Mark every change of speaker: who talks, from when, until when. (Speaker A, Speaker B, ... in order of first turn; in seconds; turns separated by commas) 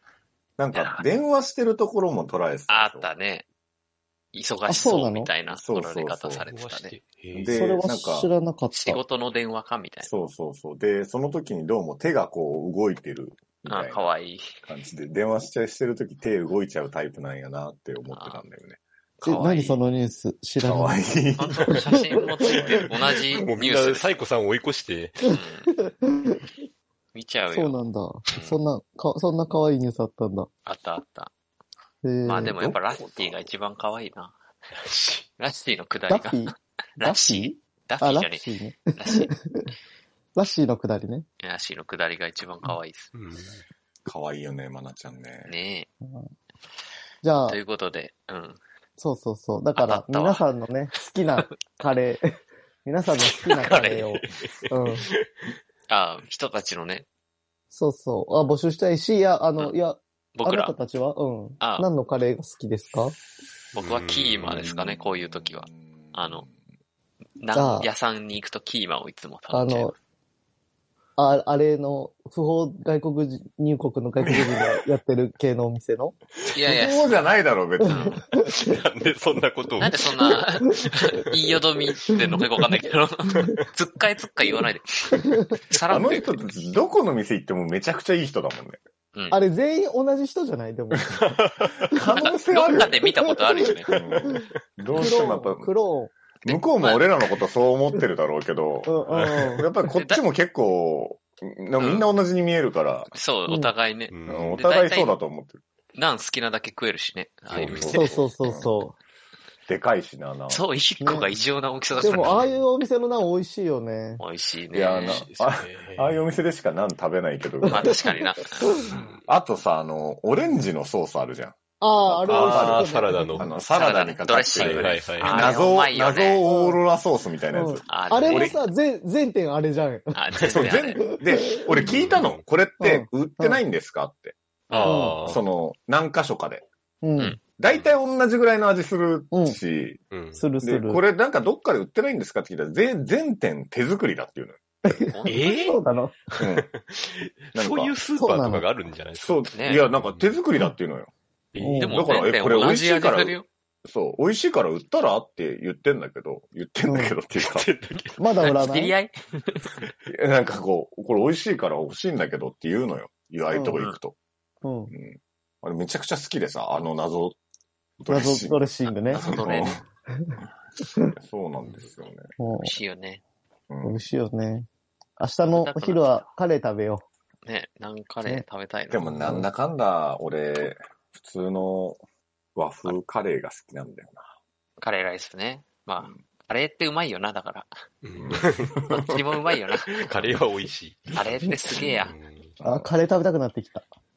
Speaker A: 0.6-3.1, Speaker B: 0.7-1.1, Speaker B: 2.7-3.5, Speaker B: 4.3-7.0, Speaker C: 4.7-5.3, Speaker A: 5.5-6.5, Speaker D: 6.5-7.6, Speaker A: 7.3-8.3, Speaker C: 7.5-9.0, Speaker B: 8.7-10.1, Speaker A: 10.0-14.1, Speaker B: 13.7-14.6, Speaker A: 14.6-18.8, Speaker B: 18.1-18.4, Speaker B: 19.2-19.8, Speaker C: 19.2-21.1, Speaker A: 20.6-22.9, Speaker B: 21.4-24.2, Speaker D: 23.3-25.3, Speaker B: 25.3-25.7, Speaker C: 25.3-26.4, Speaker B: 27.1-28.6, Speaker C: 27.5-30.5, Speaker B: 30.6-31.3, Speaker C: 32.0-32.6, Speaker B: 32.2-34.3, Speaker A: 32.4-33.5, Speaker D: 34.8-35.2, Speaker B: 35.4-38.4, Speaker C: 36.1-39.7, Speaker B: 38.9-39.3, Speaker C: 40.4-41.2, Speaker B: 41.4-43.1, Speaker D: 43.1-43.6, Speaker A: 44.0-45.5, Speaker B: 45.5-45.9, Speaker C: 46.0-46.3, Speaker C: 47.2-47.6, Speaker B: 47.5-48.6, Speaker C: 49.0-55.1, Speaker B: 49.8-50.4, Speaker B: 53.6-54.2, Speaker B: 55.9-57.0, Speaker C: 57.7-63.1, Speaker B: 60.4-60.7, Speaker B: 61.6-61.9, Speaker B: 63.7-66.5, Speaker D: 63.8-64.7, Speaker A: 64.5-66.5, Speaker B: 67.4-70.0, Speaker C: 67.5-67.9, Speaker C: 69.5-69.9, Speaker C: 71.2-76.1, Speaker A: 74.2-74.8, Speaker B: 76.5-77.2, Speaker A: 76.5-78.2, Speaker B: 77.9-78.2, Speaker D: 78.4-81.2, Speaker B: 79.8-86.4, Speaker A: 85.9-88.8, Speaker B: 89.1-89.4, Speaker C: 89.3-91.2, Speaker D: 91.2-91.8, Speaker A: 91.8-93.1, Speaker C: 91.9-92.1, Speaker B: 92.1-94.0, Speaker A: 93.9-95.7, Speaker C: 94.9-96.1, Speaker B: 96.4-97.1, Speaker A: 96.5-103.1, Speaker C: 98.8-99.7, Speaker D: 99.1-99.5, Speaker B: 99.9-100.2, Speaker B: 101.8-102.1, Speaker B: 103.1-105.2, Speaker D: 104.1-104.6, Speaker A: 104.3-105.6, Speaker B: 105.9-108.2, Speaker D: 107.5-107.9, Speaker A: 107.5-108.7, Speaker C: 107.9-109.0, Speaker A: 109.7-110.6, Speaker B: 110.5-112.5, Speaker C: 111.0-111.3, Speaker C: 112.0-114.2, Speaker D: 112.1-112.6, Speaker B: 114.2-115.2, Speaker A: 114.7-128.5, Speaker D: 115.0-116.2, Speaker B: 117.6-118.7, Speaker C: 117.7-119.0, Speaker D: 118.9-119.2, Speaker C: 121.8-123.5, Speaker D: 122.3-123.5, Speaker B: 123.7-126.4, Speaker D: 124.5-125.6, Speaker C: 126.5-126.8, Speaker C: 127.5-130.5, Speaker B: 127.9-128.6, Speaker D: 128.3-128.5, Speaker B: 130.1-131.0, Speaker A: 130.4-134.3, Speaker C: 131.2-131.7, Speaker D: 131.7-132.4, Speaker C: 132.8-133.6, Speaker B: 134.7-135.1, Speaker D: 134.7-135.4, Speaker C: 134.8-135.2, Speaker A: 135.2-136.6, Speaker C: 137.0-137.4, Speaker A: 137.6-140.0, Speaker C: 139.3-139.6, Speaker D: 140.1-140.4, Speaker C: 140.3-141.0, Speaker A: 140.6-144.6, Speaker C: 144.8-146.2, Speaker B: 145.0-145.5, Speaker D: 145.3-145.8, Speaker A: 146.4-146.7, Speaker D: 146.4-150.3, Speaker A: 147.5-148.0, Speaker C: 148.2-148.6, Speaker A: 149.2-151.1, Speaker B: 149.5-149.8, Speaker D: 151.5-152.0, Speaker C: 151.6-152.0, Speaker B: 151.8-153.5, Speaker A: 151.9-157.7, Speaker C: 156.9-157.1, Speaker D: 157.4-158.4, Speaker C: 158.2-158.9, Speaker B: 158.4-159.7, Speaker A: 160.1-164.2, Speaker C: 163.5-163.9, Speaker C: 164.6-164.9, Speaker A: 164.9-167.4, Speaker A: 168.0-169.8, Speaker C: 168.1-169.4, Speaker B: 168.9-169.8, Speaker A: 171.0-172.3, Speaker C: 172.4-172.8, Speaker B: 172.6-173.2, Speaker A: 173.7-174.0, Speaker C: 173.8-174.7, Speaker C: 175.2-177.0, Speaker B: 175.5-176.3, Speaker B: 177.4-179.3, Speaker A: 178.9-182.0, Speaker C: 179.2-179.4, Speaker A: 182.5-184.3, Speaker B: 184.8-187.7, Speaker D: 188.0-188.9, Speaker A: 188.1-188.9, Speaker B: 188.9-190.1, Speaker D: 189.9-192.5, Speaker B: 191.1-192.1, Speaker A: 192.6-192.9, Speaker C: 192.6-193.8